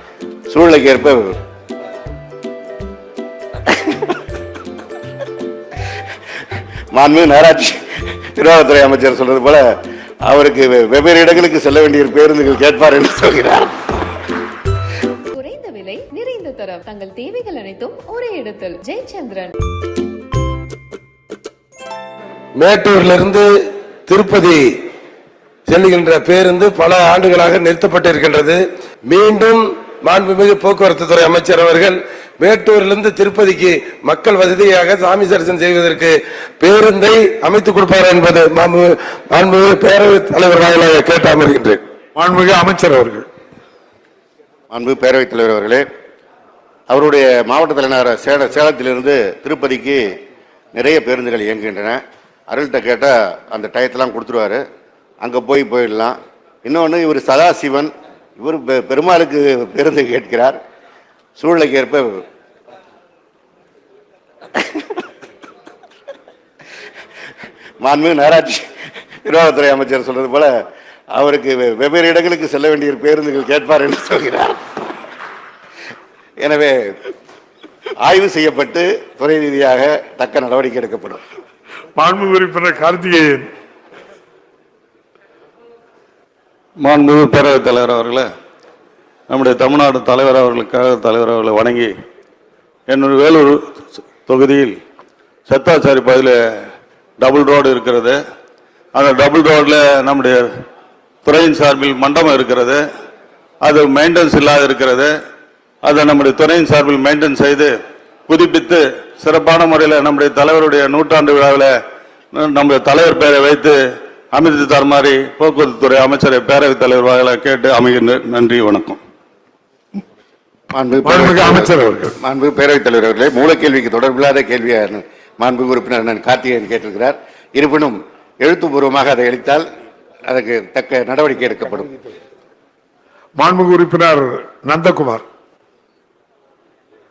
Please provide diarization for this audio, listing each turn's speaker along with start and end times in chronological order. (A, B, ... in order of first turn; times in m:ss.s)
0:00.5-0:01.3 A
0:06.9-0:07.8 A
0:08.4-0:09.6 A
0:10.3-0:13.7 A
0:15.3-0:19.5 B
0:22.6-0:23.5 C
0:24.0-0:24.6 C
0:25.7-0:41.8 C
0:42.2-0:43.2 D
0:44.7-0:45.8 A
0:46.9-0:50.0 A
0:50.8-0:54.6 A
0:55.2-1:00.6 A
1:01.4-1:02.2 A
1:07.8-1:08.7 A
1:09.2-1:10.5 A
1:11.2-1:14.6 A
1:16.4-1:16.9 A
1:18.0-1:21.2 A
1:22.0-1:23.5 D
1:26.8-1:28.2 E
1:29.3-1:31.9 E
1:32.9-1:33.6 E
1:34.1-1:34.8 E
1:35.5-1:36.4 E
1:37.2-1:38.2 E
1:38.9-1:40.4 E
1:41.2-1:42.8 E
1:43.6-1:45.1 E
1:45.8-1:47.7 E
1:48.3-1:51.7 E
1:52.3-1:53.7 E
1:54.3-1:59.0 E
2:00.7-2:09.6 A
2:01.0-2:02.2 D
2:10.3-2:11.9 A
2:13.4-2:15.2 D